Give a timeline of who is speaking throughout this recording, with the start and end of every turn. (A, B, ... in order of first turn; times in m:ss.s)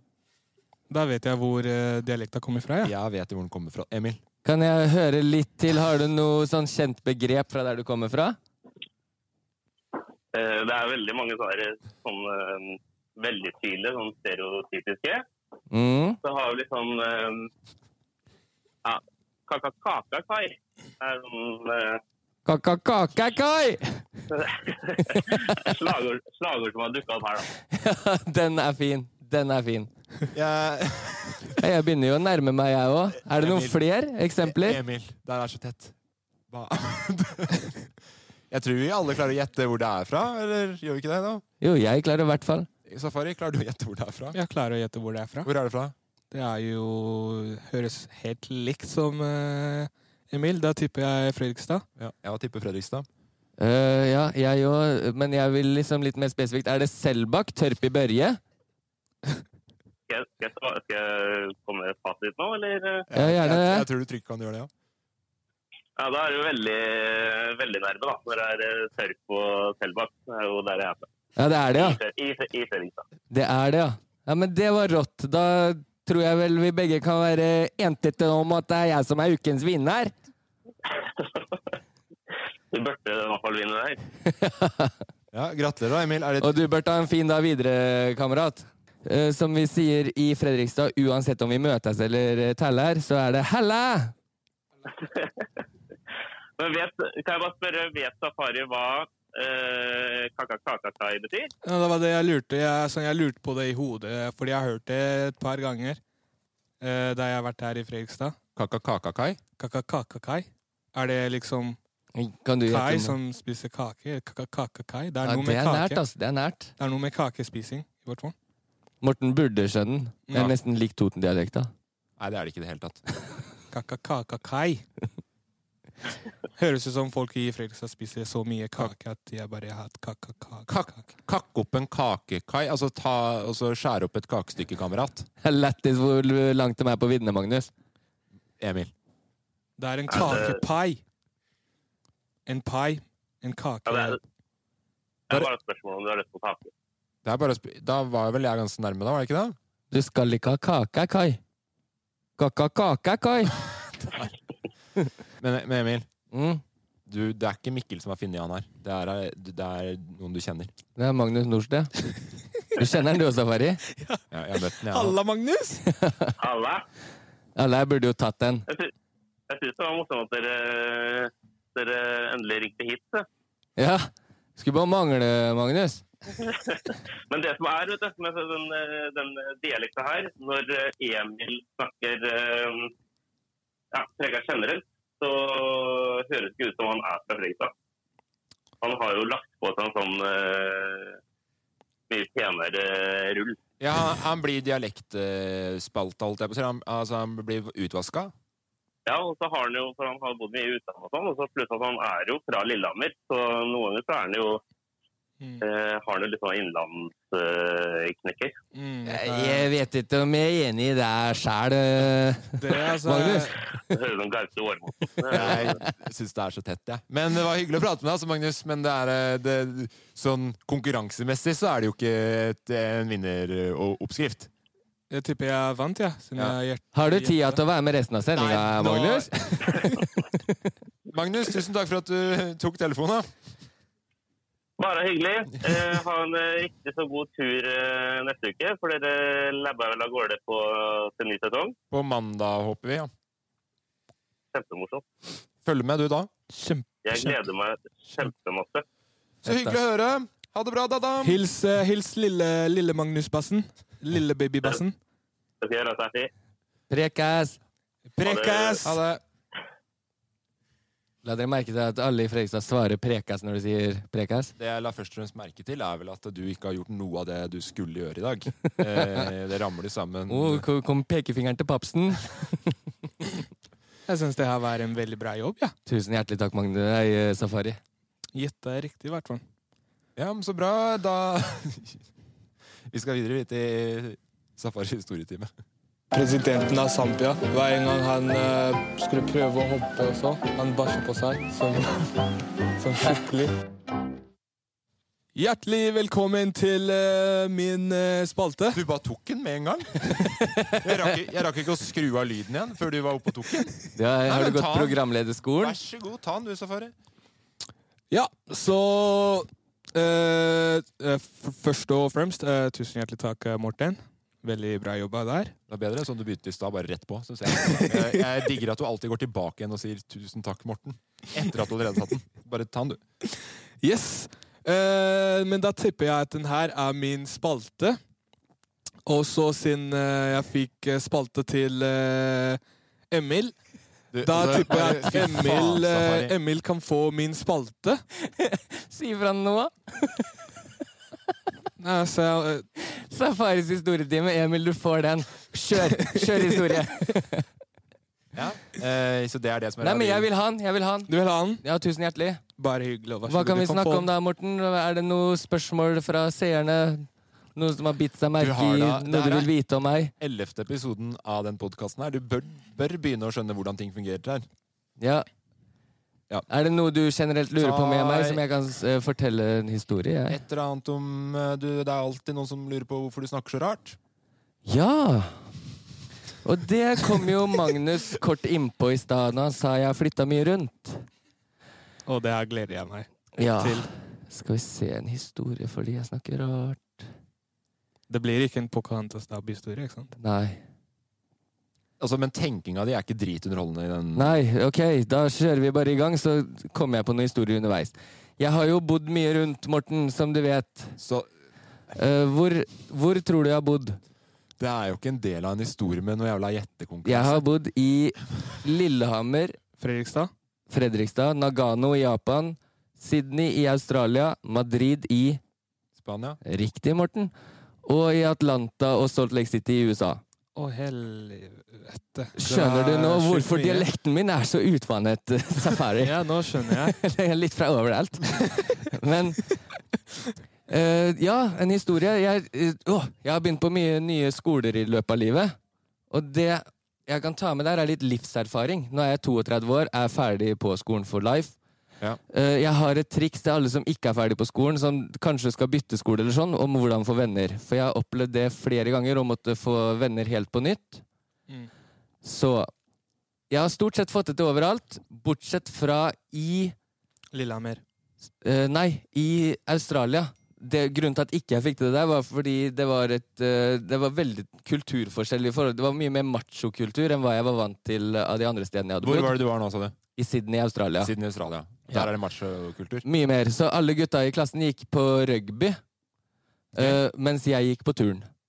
0:00.9-0:02.9 A
0:02.8-0:04.2 B
0:04.4-0:08.4 C
0:10.3-0:15.2 D
0:15.7-0:16.2 C
0:16.2-0:17.5 D
0:18.8-0:22.0 D
0:22.4-0:24.0 C
0:24.3-0:27.5 D
0:25.1-0:25.4 C
0:27.7-0:29.9 C
0:30.3-0:31.5 B
0:31.6-0:34.8 C
0:33.3-0:33.8 B
0:34.4-0:35.9 B
0:36.5-0:37.8 B
0:38.5-0:41.4 B
0:41.6-0:42.7 C
0:42.8-0:44.4 B
0:44.3-0:45.5 A
0:45.4-0:45.9 B
0:46.3-0:51.8 A
0:52.0-0:53.1 B
0:53.6-0:58.4 C
1:00.1-1:03.0 D
1:03.1-1:04.7 B
1:03.1-1:03.8 C
1:06.0-1:11.1 D
1:11.4-1:12.0 C
1:11.7-1:13.0 D
1:13.3-1:20.1 C
1:20.9-1:21.6 D
1:22.7-1:24.0 D
1:24.2-1:25.0 C
1:25.3-1:26.6 B
1:26.4-1:34.1 C
1:34.9-1:35.5 D
1:36.6-1:41.5 D
1:41.6-1:46.0 A
1:46.8-1:48.4 A
1:48.6-1:49.4 B
1:49.6-1:51.8 A
1:52.1-1:53.2 C
1:52.7-1:56.0 A
1:55.2-1:56.7 C
1:56.8-1:58.3 A
1:59.0-2:01.7 C
2:02.2-2:03.0 B
2:03.7-2:04.8 A
2:06.6-2:11.0 A
2:10.7-2:15.3 B
2:15.4-2:17.7 C
2:18.6-2:18.9 B
2:19.8-2:21.0 A
2:20.1-2:20.6 D
2:22.5-2:24.2 A
2:23.8-2:24.2 D
2:25.3-2:26.7 D
2:27.2-2:29.6 B
2:29.9-2:31.4 C
2:32.4-2:33.5 C
2:35.4-2:36.1 B
2:36.3-2:36.6 C
2:37.1-2:40.7 B
2:41.0-2:41.9 C
2:42.7-2:43.8 C
2:44.3-2:45.2 B
2:44.7-2:45.8 A
2:45.9-2:46.3 C
2:46.4-2:46.8 D
2:47.6-2:48.6 C
2:49.5-2:53.2 D
2:53.8-2:56.0 C
2:56.4-3:02.9 D
3:03.9-3:07.7 D
3:08.8-3:11.2 D
3:12.1-3:13.6 D
3:13.8-3:18.3 B
3:19.0-3:24.6 D
3:25.6-3:28.6 D
3:28.7-3:29.7 A
3:29.1-3:33.5 C
3:32.6-3:33.6 A
3:33.9-3:35.8 D
3:35.3-3:44.5 B
3:35.3-3:35.7 C
3:45.1-3:47.6 A
3:46.9-3:50.5 C
3:48.3-3:49.3 B
3:51.1-3:53.3 B
3:54.8-4:01.8 D
4:01.9-4:03.1 B
4:04.5-4:05.0 D
4:05.6-4:06.3 B
4:06.5-4:07.4 A
4:07.0-4:08.8 D
4:09.4-4:11.4 B
4:09.4-4:09.8 C
4:11.2-4:15.0 A
4:15.6-4:16.3 D
4:16.9-4:17.6 C
4:18.1-4:19.0 A
4:18.2-4:18.8 D
4:18.8-4:19.2 B
4:21.2-4:24.5 C
4:24.6-4:30.6 B
4:28.9-4:29.2 C
4:30.3-4:32.7 C
4:34.1-4:35.7 A
4:35.8-4:37.8 C
4:38.3-4:39.4 A
4:40.2-4:42.0 B
4:42.9-4:45.5 B
4:46.1-4:52.1 A
4:52.8-4:53.5 A
4:55.4-4:58.8 A
4:58.7-4:59.9 B
5:00.3-5:01.1 C
5:00.8-5:05.0 B
5:04.0-5:05.8 C
5:05.6-5:06.9 B
5:08.1-5:15.5 A
5:15.7-5:23.0 B
5:17.6-5:18.4 A
5:23.8-5:28.0 A
5:29.0-5:32.6 A
5:33.1-5:33.5 A
5:34.1-5:36.3 B
5:34.2-5:38.0 A
5:38.2-5:40.3 C
5:41.8-5:42.6 A
5:42.9-5:47.4 C
5:46.0-5:46.8 A
5:48.3-5:50.3 B
5:49.8-5:52.4 C
5:51.1-5:51.6 A
5:52.6-5:54.1 A
5:53.3-6:00.1 C
5:58.4-5:59.5 B
6:00.2-6:04.4 B
6:05.0-6:05.2 C
6:06.5-6:10.4 C
6:07.6-6:08.4 B
6:10.3-6:14.0 B
6:14.6-6:15.4 C
6:16.4-6:21.0 C
6:22.0-6:23.9 A
6:23.4-6:27.1 C
6:28.1-6:30.1 A
6:30.2-6:30.6 C
6:32.0-6:34.4 B
6:34.2-6:41.0 C
6:41.0-6:41.3 B
6:41.9-6:44.0 C
6:44.6-6:47.4 B
6:47.0-6:49.6 C
6:49.8-6:50.3 A
6:50.7-6:55.4 C
6:56.0-6:56.4 B
6:56.4-6:57.3 C
6:57.8-7:00.2 C
7:00.6-7:03.9 A
7:02.4-7:06.1 C
7:06.0-7:07.0 A
7:06.8-7:09.5 C
7:10.7-7:15.6 C
7:16.1-7:21.6 C
7:22.3-7:31.0 C
7:32.2-7:32.7 C
7:33.5-7:36.7 C
7:37.3-7:37.8 A
7:38.4-7:49.4 C
7:49.0-7:49.9 B
7:50.2-7:51.1 C
7:51.0-7:53.0 B
7:53.0-7:55.8 C
7:56.7-7:58.3 C
7:56.7-7:57.0 B